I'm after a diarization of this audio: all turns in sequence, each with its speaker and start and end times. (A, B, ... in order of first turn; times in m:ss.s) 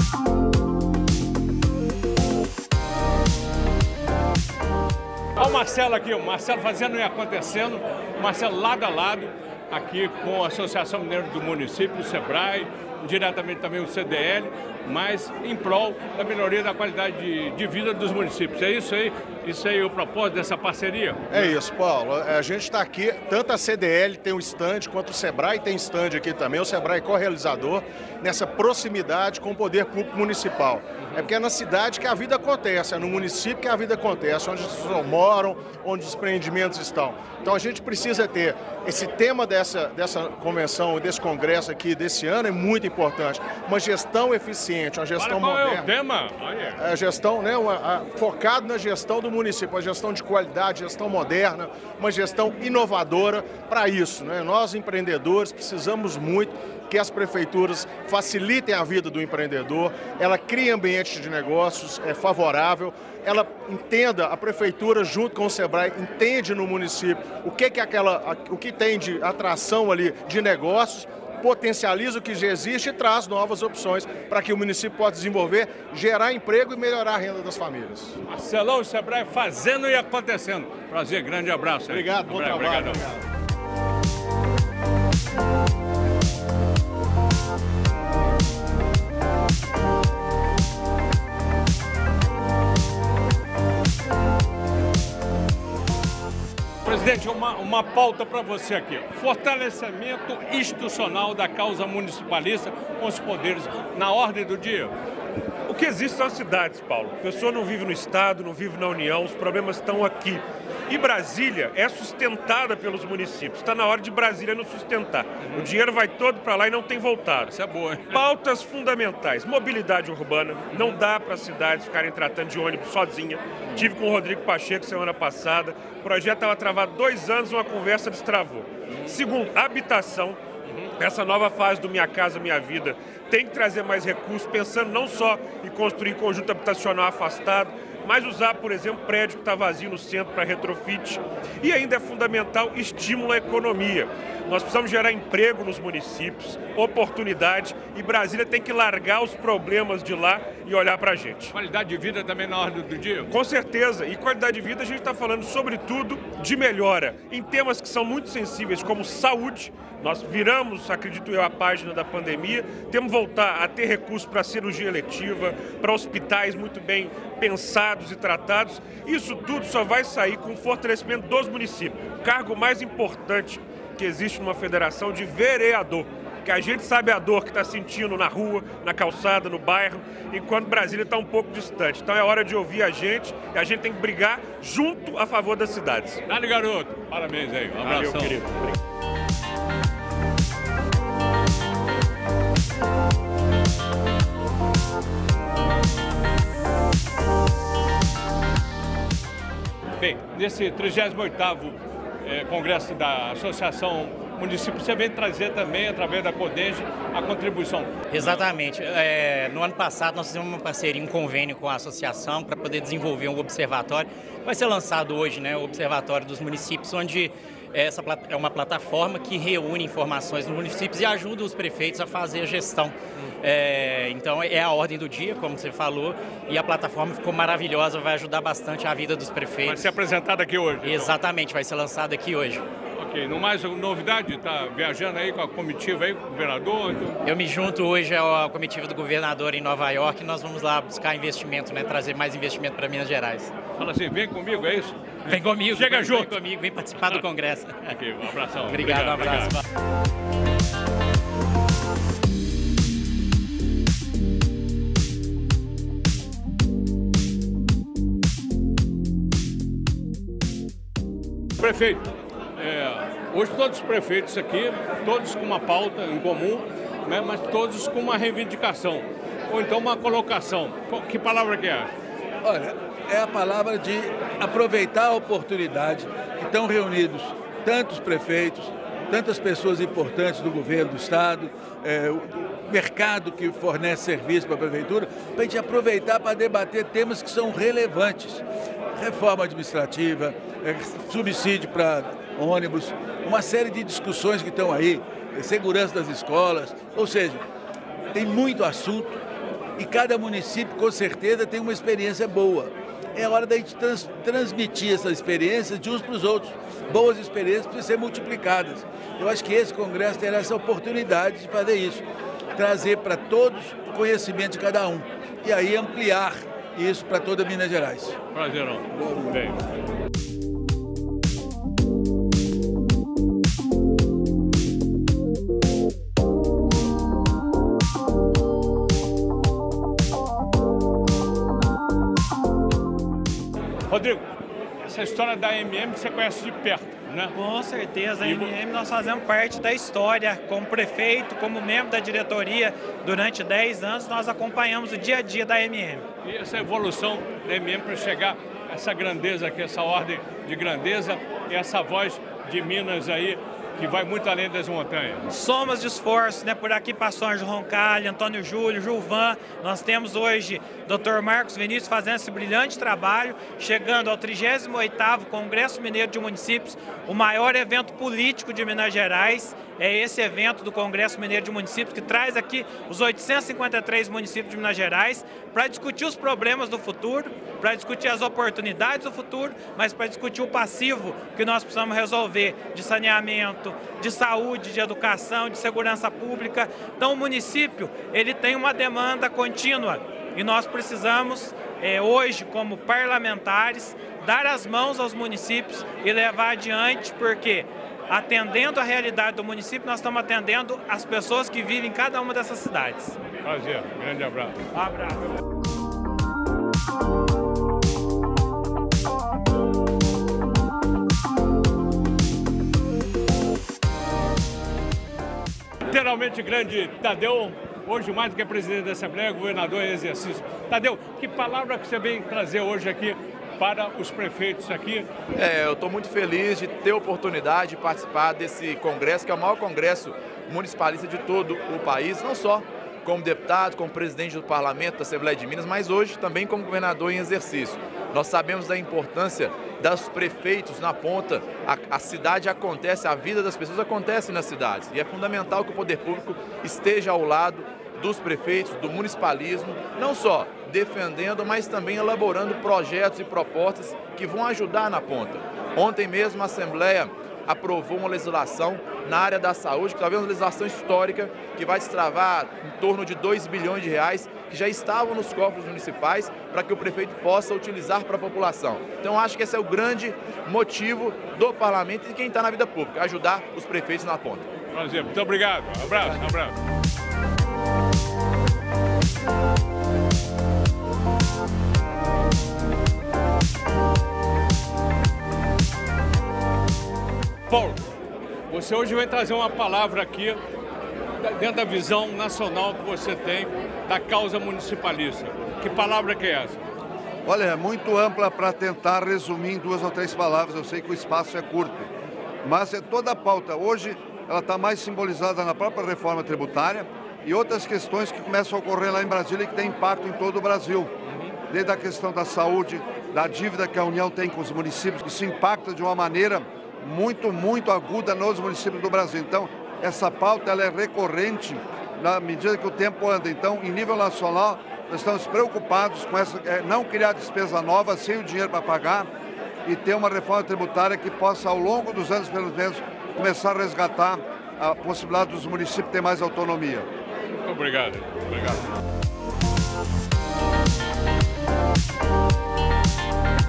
0:05.4-0:21.6 A
0:21.3-0:46.0 B
0:45.1-0:46.8 A
0:46.8-1:18.2 B
1:18.3-1:23.1 A
1:21.9-1:23.2 B
1:36.8-1:44.9 A
1:45.7-1:57.5 C
1:55.4-1:55.8 A
1:57.5-1:58.2 A
1:58.1-2:10.4 C
2:00.7-2:01.0 A
2:11.0-2:31.5 C
2:31.5-2:33.3 A
2:33.3-3:06.2 C
3:06.3-3:08.7 A
3:07.8-3:08.4 C
3:20.0-3:28.5 A
3:28.1-3:49.9 D
3:49.6-3:51.2 A
3:50.8-3:52.6 D
3:53.0-3:57.2 A
3:57.2-4:03.5 D
4:03.8-4:06.4 A
4:05.3-4:07.9 D
4:07.9-4:09.5 A
4:08.7-4:09.6 D
4:21.6-4:31.9 A
4:32.4-4:48.4 E
4:49.0-4:57.4 E
4:58.2-4:59.1 E
4:59.8-5:06.5 E
5:07.1-5:12.0 E
5:12.6-5:18.1 E
5:18.3-5:19.7 A
5:33.9-5:34.2 A
5:34.8-5:37.4 A
5:37.3-5:46.1 F
5:38.2-5:38.5 A
5:46.2-5:55.3 A
5:55.3-6:43.2 F
6:43.4-6:44.6 A
6:44.7-6:45.3 F
6:55.8-7:05.1 A
7:05.4-7:54.5 G
7:54.7-7:56.5 A
8:07.5-8:07.8 A
8:08.5-8:10.4 A
8:11.2-8:16.6 A
8:17.2-8:21.9 H
8:22.4-8:30.9 H
8:31.5-8:49.1 H
8:49.6-8:56.9 H
8:57.4-8:58.6 A